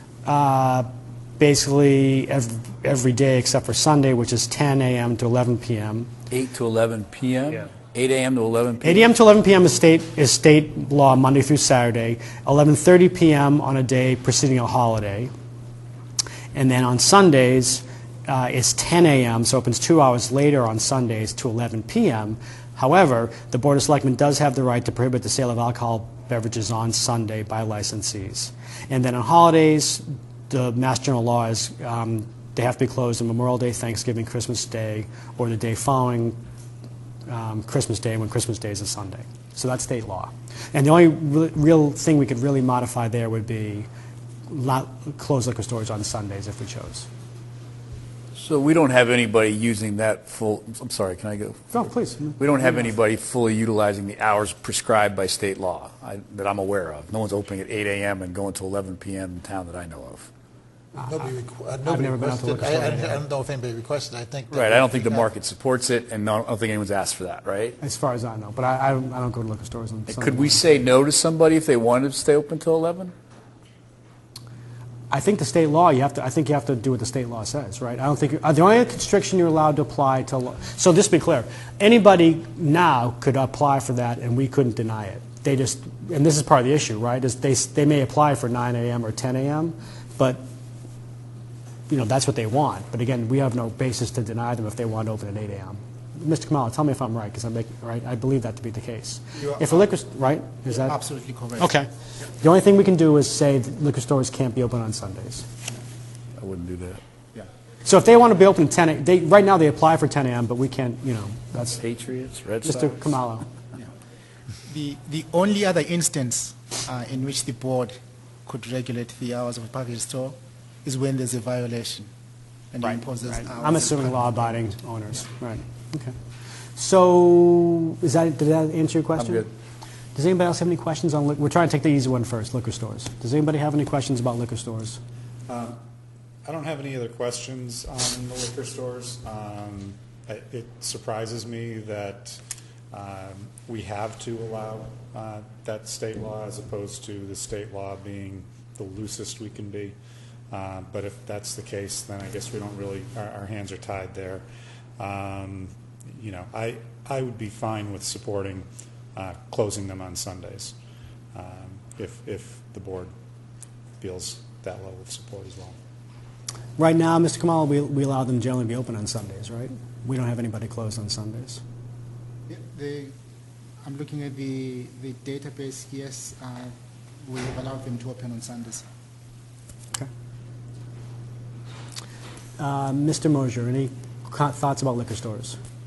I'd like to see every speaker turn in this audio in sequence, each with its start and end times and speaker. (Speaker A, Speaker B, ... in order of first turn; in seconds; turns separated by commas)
Speaker A: 0.2-6.1, Speaker B: 6.3-9.1, Speaker A: 8.8-15.3, Speaker A: 16.5-36.4, Speaker A: 37.3-43.9, Speaker A: 44.5-47.1, Speaker B: 48.3-51.8, Speaker A: 51.7-52.9, Speaker B: 52.4-60.3, Speaker C: 61.0-65.2, Speaker A: 61.9-63.2, Speaker B: 64.5-67.8, Speaker A: 67.8-70.6, Speaker B: 70.1-73.1, Speaker A: 75.1-90.4, Speaker A: 91.9-101.0, Speaker D: 99.4-99.8, Speaker D: 100.7-101.7, Speaker A: 101.6-101.9, Speaker A: 102.4-105.5, Speaker B: 106.4-107.0, Speaker A: 107.8-111.8, Speaker B: 111.8-113.0, Speaker A: 112.6-113.5, Speaker D: 114.6-122.1, Speaker D: 122.7-124.4, Speaker A: 123.4-126.2, Speaker A: 126.8-129.5, Speaker A: 130.1-135.0, Speaker E: 135.5-135.8, Speaker E: 136.4-142.4, Speaker E: 142.9-150.0, Speaker E: 150.5-154.4, Speaker E: 155.0-160.7, Speaker E: 161.3-163.1, Speaker E: 164.0-165.8, Speaker A: 166.8-171.6, Speaker D: 172.5-173.1, Speaker D: 173.8-178.8, Speaker A: 182.6-185.6